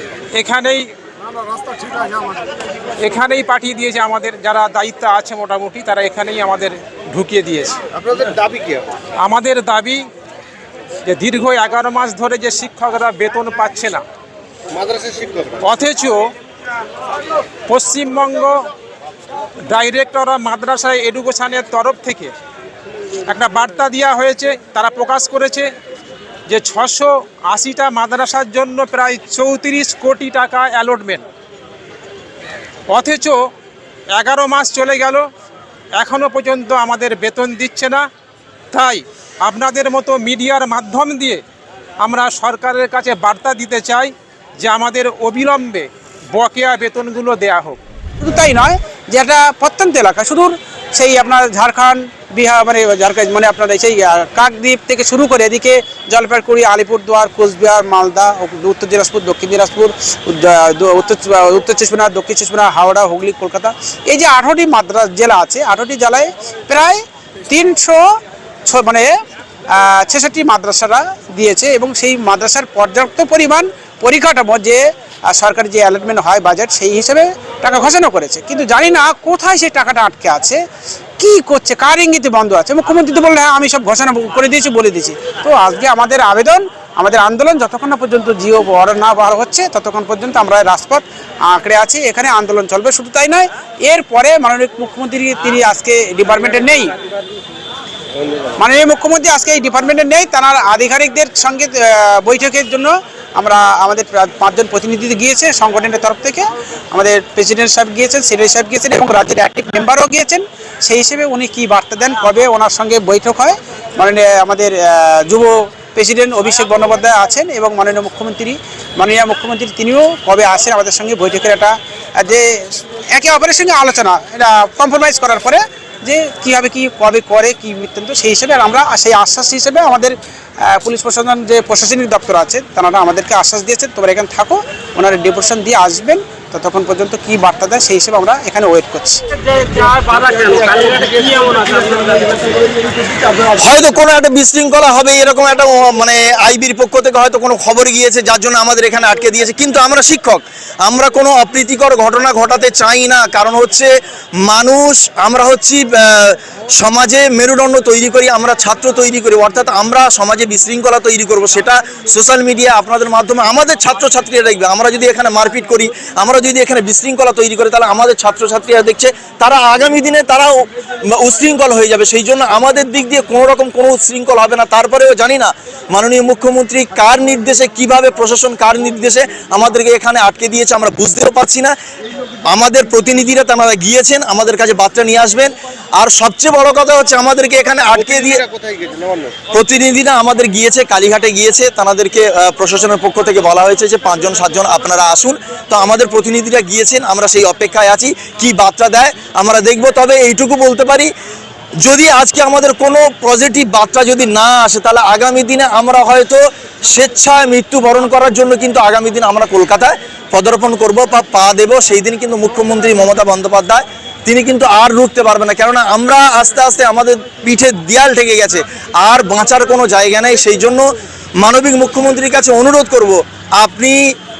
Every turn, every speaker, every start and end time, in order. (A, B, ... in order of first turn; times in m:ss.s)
0:00.3-0:00.9 A
0:03.0-0:07.8 A
0:07.9-0:08.9 B
0:09.2-0:10.0 A
0:11.1-0:14.0 A
0:14.7-0:15.7 B
0:15.6-0:16.2 A
0:17.7-0:18.7 A
0:19.7-0:22.3 A
0:23.3-0:25.7 A
0:26.5-0:31.2 A
0:32.9-0:33.4 A
0:34.1-0:35.2 A
0:36.0-0:38.1 A
0:38.7-0:41.4 A
0:42.0-0:47.8 A
0:48.2-1:08.0 C
1:08.6-1:09.1 C
1:09.7-1:20.6 C
1:21.2-1:37.0 C
1:38.6-2:19.2 C
2:19.7-2:22.1 B
2:23.5-2:33.9 D
2:34.4-3:01.7 D
3:02.5-3:08.4 D
3:07.9-3:09.4 B
3:09.5-3:21.1 D
3:21.8-3:40.8 D
3:41.4-3:44.1 D